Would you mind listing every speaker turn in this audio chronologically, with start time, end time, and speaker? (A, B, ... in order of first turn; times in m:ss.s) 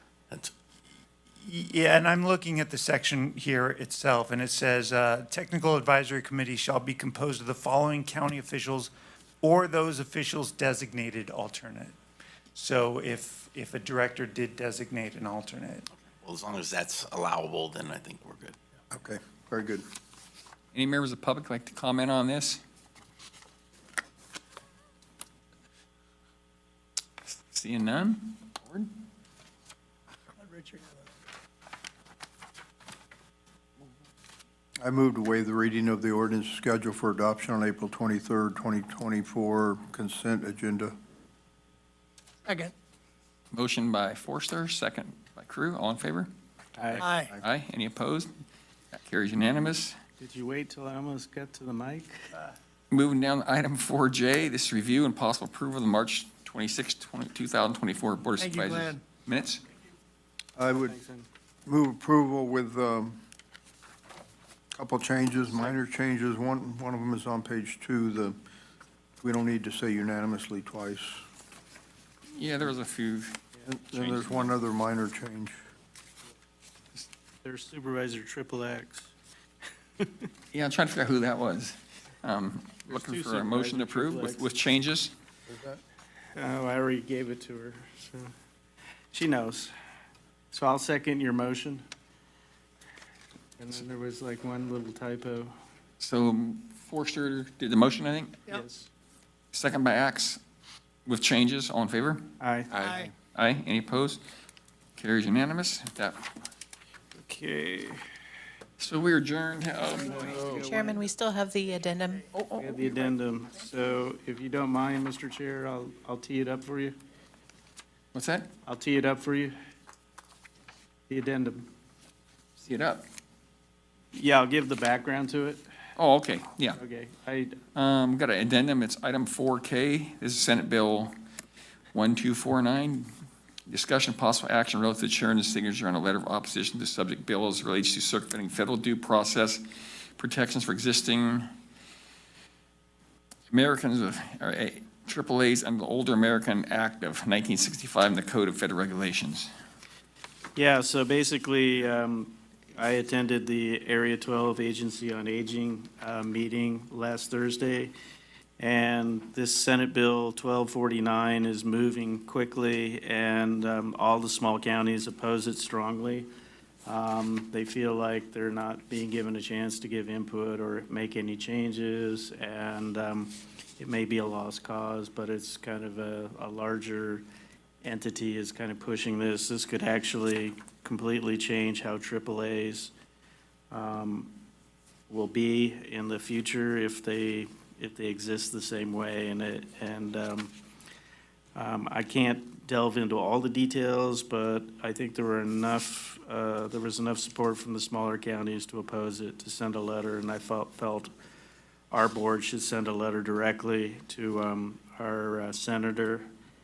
0:01.4-0:08.9 A
0:09.4-0:11.9 A
0:12.5-0:15.8 A
0:16.2-0:18.6 B
0:18.9-0:19.8 C
0:20.7-0:22.6 D
0:27.3-0:28.9 D
0:30.4-0:31.0 E
0:34.8-0:40.9 C
0:42.4-0:42.7 E
0:43.5-0:46.3 D
0:46.8-0:47.2 F
0:46.9-0:48.3 D
0:47.0-0:47.3 E
0:49.0-0:50.0 D
0:50.2-0:52.2 F
0:52.9-0:59.6 D
0:58.4-0:59.0 E
1:00.6-1:00.9 C
1:00.7-1:01.3 F
1:01.7-1:03.2 C
1:04.7-1:08.4 C
1:09.2-1:11.2 C
1:12.3-1:14.5 D
1:13.6-1:15.5 C
1:17.4-1:19.1 F
1:20.0-1:20.2 F
1:20.5-1:25.1 D
1:22.9-1:24.5 F
1:25.5-1:25.8 C
1:26.3-1:28.3 F
1:29.1-1:29.7 F
1:30.5-1:31.8 F
1:33.6-1:35.5 F
1:36.0-1:38.4 D
1:38.5-1:38.9 F
1:39.5-1:40.4 D
1:41.0-1:42.2 D
1:42.4-1:42.7 F
1:42.8-1:43.1 E
1:43.2-1:44.2 D
1:45.0-1:46.1 D
1:47.2-1:48.0 F
1:48.8-1:50.2 D
1:49.9-1:51.2 F
1:50.2-1:52.9 G
1:52.6-1:56.9 F
1:58.1-1:58.5 D
1:58.6-1:59.5 F
2:01.1-2:01.7 F
2:02.6-2:03.0 D
2:04.1-2:05.6 F
2:06.0-2:06.8 D
2:06.8-2:07.6 F
2:07.7-2:11.1 D
2:11.9-2:13.1 D
2:13.7-2:19.6 D
2:20.2-2:21.4 D
2:23.5-2:29.5 D
2:30.6-2:37.9 F
2:38.6-2:46.3 F
2:46.8-2:57.2 F
2:57.8-3:02.9 F
3:03.7-3:04.3 F
3:05.1-3:10.5 F
3:11.5-3:21.1 F
3:21.9-3:26.3 F